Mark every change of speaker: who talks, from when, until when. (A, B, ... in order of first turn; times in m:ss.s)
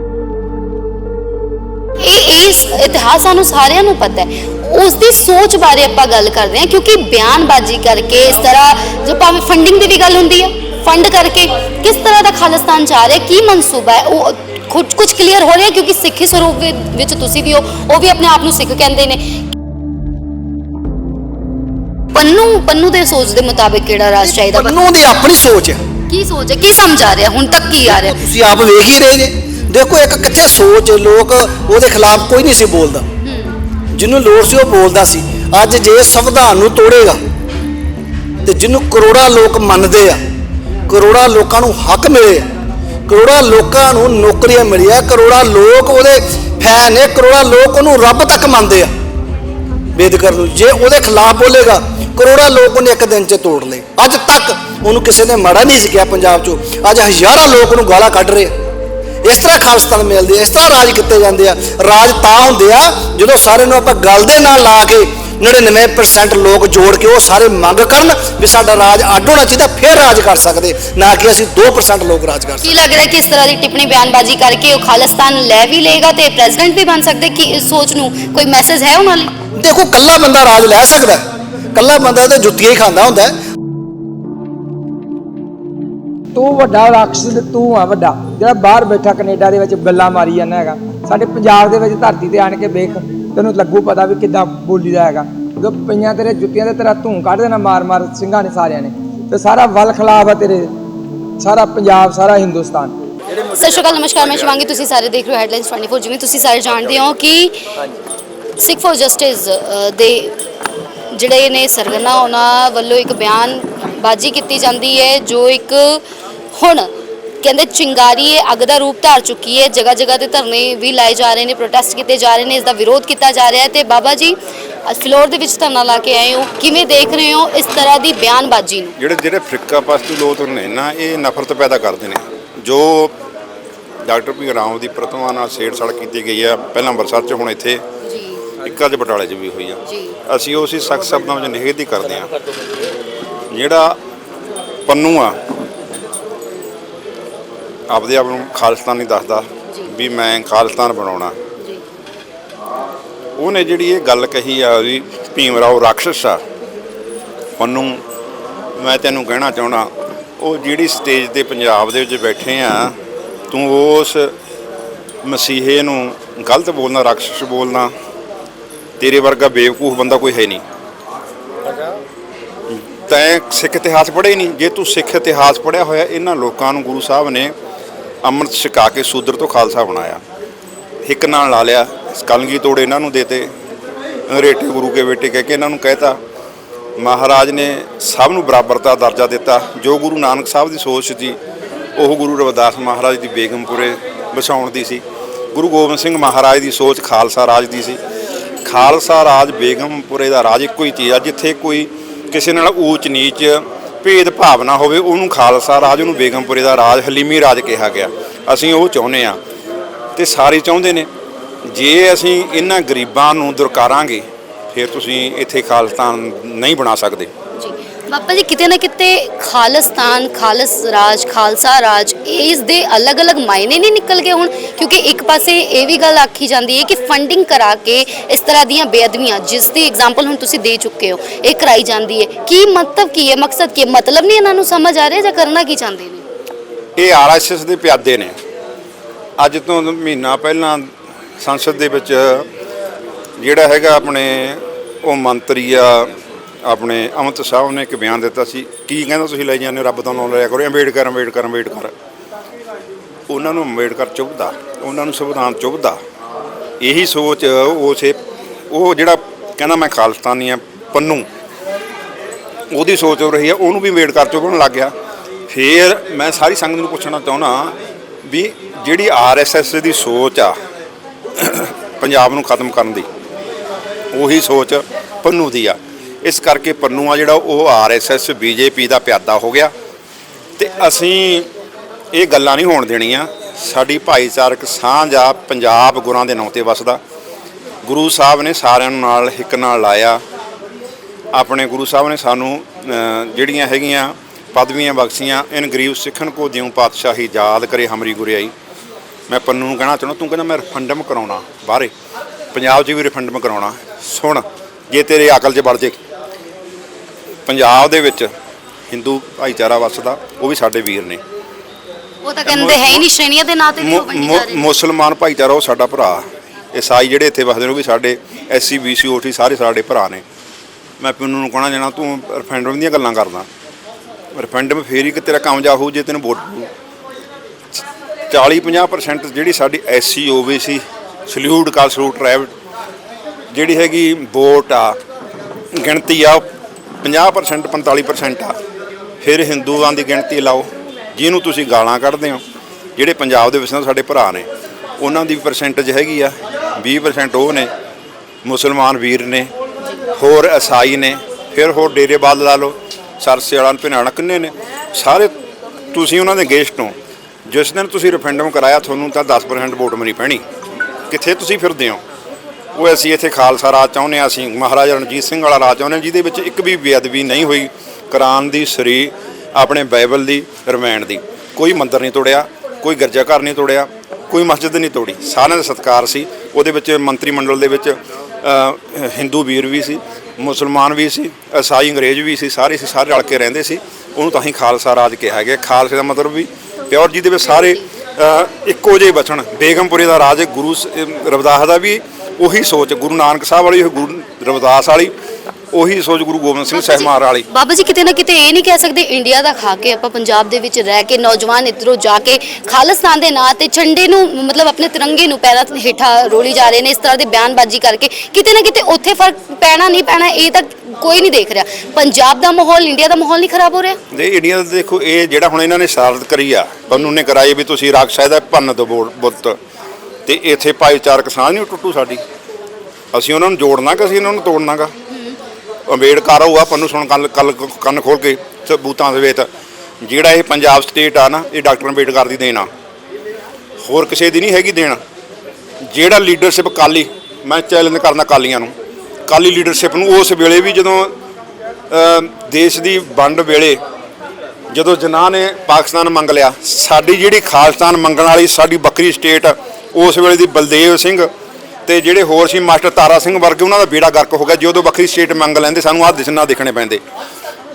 0:02.0-0:19.4 A
0:22.1-0:24.8 A
0:24.2-0:25.8 B
0:26.1-0:28.2 A
0:27.8-0:33.1 B
0:33.2-0:33.6 A
0:33.9-0:37.2 B
0:38.4-0:40.2 B
0:40.9-0:42.5 B
0:43.1-0:48.9 B
0:50.0-0:58.6 B
0:59.2-1:12.7 B
1:12.6-1:19.3 A
1:19.6-1:23.4 B
1:26.4-1:40.7 C
1:41.4-1:43.0 C
1:43.4-1:47.6 A
1:48.6-1:50.4 A
1:51.1-1:56.0 A
1:56.6-1:56.9 A
1:57.4-2:09.0 A
2:09.0-2:13.2 D
2:14.0-2:17.8 D
2:18.0-2:18.4 A
2:18.6-2:22.3 D
2:19.8-2:20.2 A
2:23.5-2:24.0 D
2:24.9-2:25.4 D
2:27.9-2:31.4 D
2:33.4-2:36.4 D
2:37.6-2:38.0 D
2:38.8-2:43.0 D
2:43.5-2:44.3 D
2:45.2-2:47.9 D
2:49.0-2:50.6 D
2:52.7-2:57.5 D
2:58.2-3:00.2 D
3:01.0-3:03.5 D
3:04.3-3:06.2 D
3:07.0-3:11.4 D
3:12.0-3:15.0 D
3:15.5-3:18.0 D
3:18.6-3:29.4 D
3:30.2-3:31.1 D
3:31.6-3:37.3 D
3:37.6-3:56.2 A
3:57.0-3:58.4 D
3:59.4-4:00.9 D
4:01.4-4:02.5 D
4:03.4-4:11.9 D
4:13.3-4:16.0 D
4:16.8-4:18.2 D
4:18.7-4:21.3 D
4:22.7-4:24.9 D
4:25.5-4:30.6 D
4:31.4-4:33.1 D
4:34.1-4:39.7 D
4:40.6-4:41.5 D
4:42.1-4:47.0 D
4:47.9-4:50.2 D
4:51.3-4:58.5 D
4:59.3-5:01.9 D
5:02.5-5:06.0 D
5:07.5-5:08.3 D
5:08.9-5:11.2 D
5:12.2-5:14.6 A
5:12.5-5:13.0 D
5:13.8-5:20.2 D
5:21.0-5:23.5 D
5:24.4-5:26.7 D
5:28.3-5:32.5 D
5:33.5-5:35.0 D
5:35.7-5:36.5 D
5:37.0-5:38.6 D
5:39.2-5:42.4 D
5:43.0-5:44.5 D
5:45.0-5:47.7 D
5:48.4-5:49.5 D
5:50.2-5:55.3 D
5:55.9-5:57.0 D
5:57.5-6:00.4 D
6:01.1-6:02.0 D
6:02.8-6:35.1 D
6:35.7-6:37.5 D
6:36.8-6:54.0 A
6:54.1-6:59.6 D
7:00.3-7:02.2 D
7:03.1-7:04.9 D
7:05.9-7:09.5 D
7:10.0-7:12.7 D
7:13.8-7:15.0 D
7:15.9-7:18.7 D
7:19.3-7:21.1 D
7:21.9-7:23.8 D
7:24.7-7:31.3 D
7:31.9-7:37.0 D